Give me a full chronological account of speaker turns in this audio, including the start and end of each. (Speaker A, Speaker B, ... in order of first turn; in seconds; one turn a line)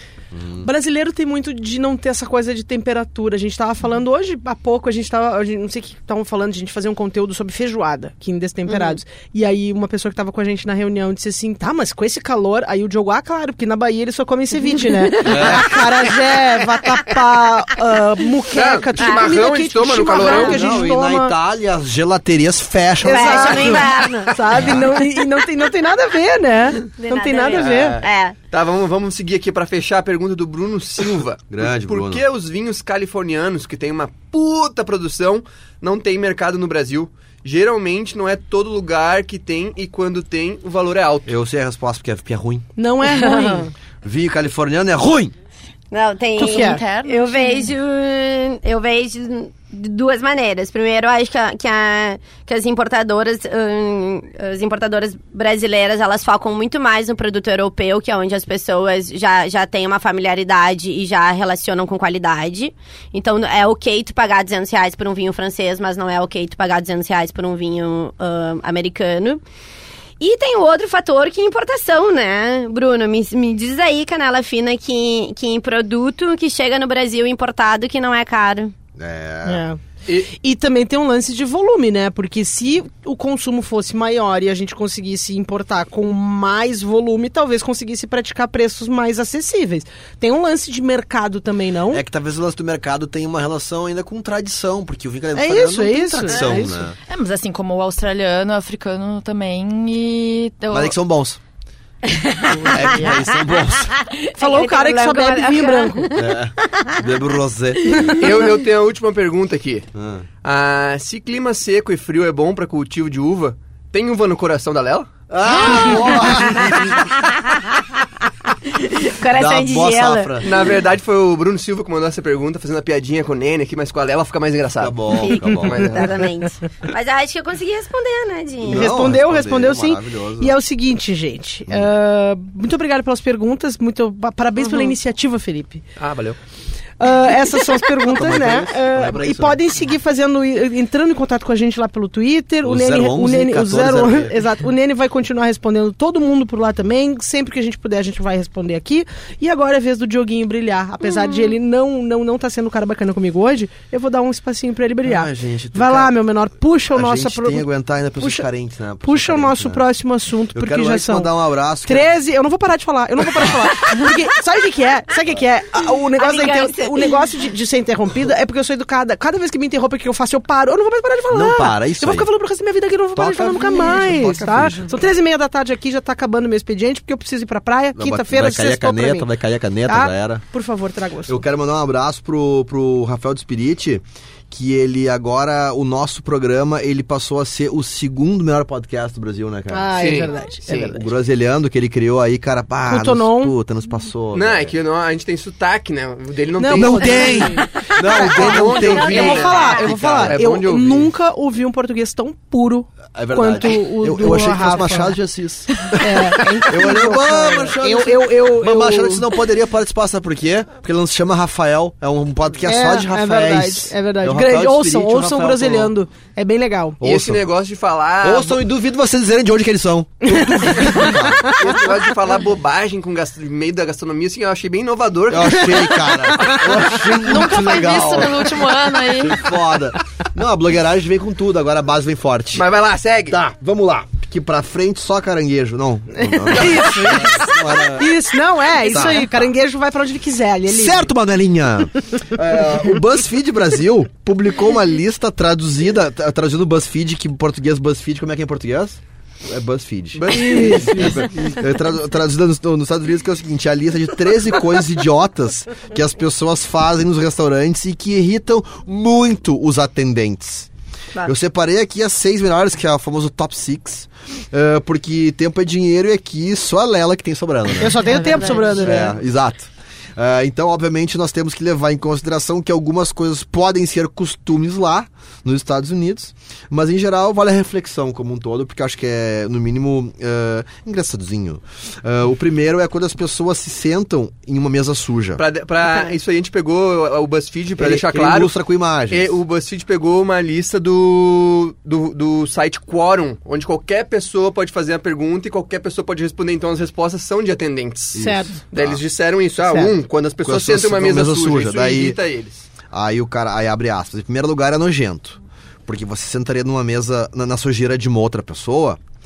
Speaker A: 0.3-0.7
Speaker B: 0.6-21.4
Speaker C: 8.7-9.0
Speaker C: 15.2-15.6
Speaker A: 15.2-15.8
Speaker D: 18.5-20.6
Speaker C: 19.0-19.3
Speaker C: 20.1-20.6
Speaker A: 20.4-23.9
Speaker B: 23.0-28.0
Speaker C: 23.1-24.6
Speaker C: 26.9-28.4
Speaker D: 27.6-41.3
Speaker A: 31.5-32.2
Speaker A: 41.3-42.7
Speaker B: 42.8-43.7
Speaker C: 43.1-43.7
Speaker A: 44.0-45.3
Speaker C: 45.9-69.4
Speaker B: 46.4-46.8
Speaker E: 46.4-47.7
Speaker C: 70.2-78.7
Speaker A: 79.0-79.7
Speaker B: 79.5-92.0
Speaker D: 80.1-80.3
Speaker A: 91.9-97.0
Speaker B: 95.3-96.9
Speaker E: 97.1-101.0
Speaker A: 100.7-101.4
Speaker C: 102.0-107.0
Speaker E: 102.5-103.2
Speaker A: 102.7-103.9
Speaker B: 104.4-106.1
Speaker A: 106.2-108.1
Speaker C: 107.8-108.2
Speaker D: 108.1-109.9
Speaker A: 110.0-110.2
Speaker D: 110.4-115.1
Speaker A: 115.3-117.2
Speaker C: 115.6-117.7
Speaker C: 118.7-120.7
Speaker A: 119.3-120.5
Speaker D: 120.4-125.0
Speaker A: 124.8-126.0
Speaker C: 125.1-128.9
Speaker D: 125.5-126.1
Speaker A: 128.7-130.6
Speaker B: 128.7-135.8
Speaker D: 136.0-136.4
Speaker B: 137.0-157.6
Speaker A: 138.0-139.6
Speaker A: 142.6-144.3
Speaker C: 151.1-151.4
Speaker A: 155.0-156.2
Speaker A: 156.9-159.8
Speaker B: 158.2-158.5
Speaker B: 159.0-161.3
Speaker A: 160.5-162.1
Speaker B: 161.9-179.3
Speaker C: 166.2-167.3
Speaker A: 171.3-172.3
Speaker A: 173.2-174.9
Speaker A: 177.9-180.4
Speaker B: 179.9-181.4
Speaker A: 181.3-194.7
Speaker B: 189.7-191.0
Speaker D: 190.0-191.0
Speaker B: 192.9-193.5
Speaker D: 194.3-197.6
Speaker B: 196.6-205.2
Speaker A: 196.7-200.4
Speaker D: 198.2-201.1
Speaker C: 198.8-199.9
Speaker A: 203.1-215.9
Speaker B: 205.9-209.3
Speaker B: 212.7-217.0
Speaker A: 217.0-217.4
Speaker D: 217.0-218.6
Speaker A: 218.2-221.7
Speaker B: 220.3-221.7
Speaker D: 221.6-226.5
Speaker A: 225.3-232.7
Speaker E: 227.2-229.4
Speaker D: 232.5-233.4
Speaker A: 233.3-238.1
Speaker B: 236.2-241.1
Speaker D: 236.5-237.3
Speaker A: 238.8-239.5
Speaker A: 240.7-260.7
Speaker D: 250.2-251.2
Speaker B: 250.3-251.2
Speaker A: 261.2-268.0
Speaker B: 267.8-269.1
Speaker E: 268.0-268.9
Speaker C: 268.1-268.9
Speaker A: 268.8-285.4
Speaker D: 285.4-288.5
Speaker A: 287.8-289.4
Speaker D: 289.1-302.6
Speaker B: 298.1-298.6
Speaker A: 298.1-299.0
Speaker A: 300.4-302.2
Speaker A: 302.9-309.0